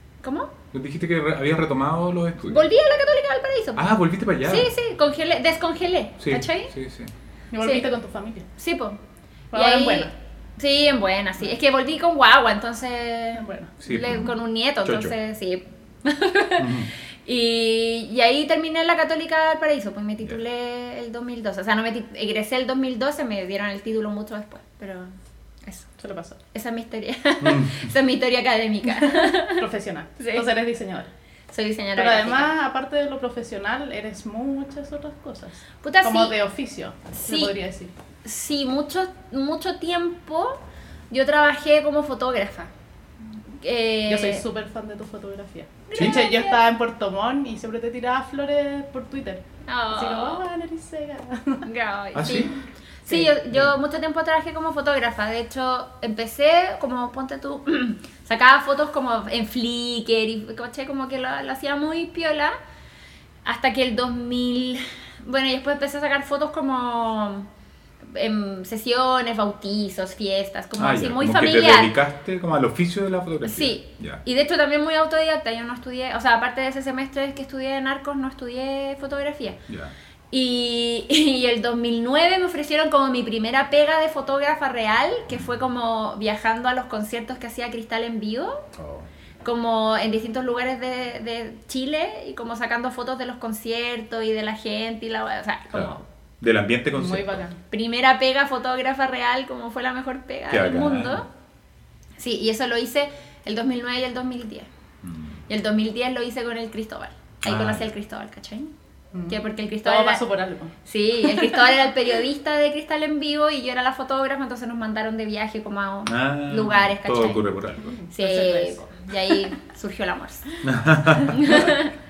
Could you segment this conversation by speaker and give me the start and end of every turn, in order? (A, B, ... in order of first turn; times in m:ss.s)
0:00.2-0:00.5 A
0:00.7-0:02.7 B
0:02.5-0:03.9 A
0:03.8-0:04.7 B
0:04.4-0:06.7 A
0:06.2-0:07.1 B
0:07.5-0:08.5 C
0:07.6-0:07.9 A
0:08.6-0:09.0 A
0:09.5-0:10.1 C
0:09.5-0:25.9 A
0:13.4-0:13.8 C
0:13.8-0:15.1 B
0:16.6-0:16.9 B
0:26.0-0:26.4 C
0:26.5-0:29.6 A
0:27.4-0:27.9 B
0:29.0-0:31.1 C
0:30.2-0:30.5 A
0:31.5-0:32.5 A
0:32.0-0:37.9 C
0:35.8-0:36.3 A
0:37.1-0:37.5 A
0:38.2-0:40.6 A
0:41.1-0:42.7 A
0:43.6-0:44.4 A
0:44.1-0:51.7 C
0:45.9-0:46.6 A
0:49.7-0:50.4 A
0:51.6-1:02.6 A
0:52.2-0:52.6 B
0:53.1-0:53.3 C
1:03.4-1:07.5 A
1:08.0-1:11.9 A
1:10.8-1:14.2 B
1:13.4-1:19.6 A
1:19.7-1:19.9 B
1:20.3-1:28.7 A
1:28.8-1:29.1 B
1:29.4-1:36.0 A
1:35.7-1:37.4 B
1:37.0-1:37.6 C
1:37.7-1:41.3 A
1:40.5-1:41.2 B
1:42.2-1:44.7 A
1:45.0-1:45.4 B
1:45.5-1:48.7 A
1:47.4-1:47.8 B
1:49.1-1:51.6 C
1:49.3-1:50.2 A
1:50.9-1:57.5 A
1:56.1-1:57.9 B
1:57.8-1:59.5 C
1:58.1-2:00.6 A
2:00.6-2:01.7 B
2:01.3-2:01.9 A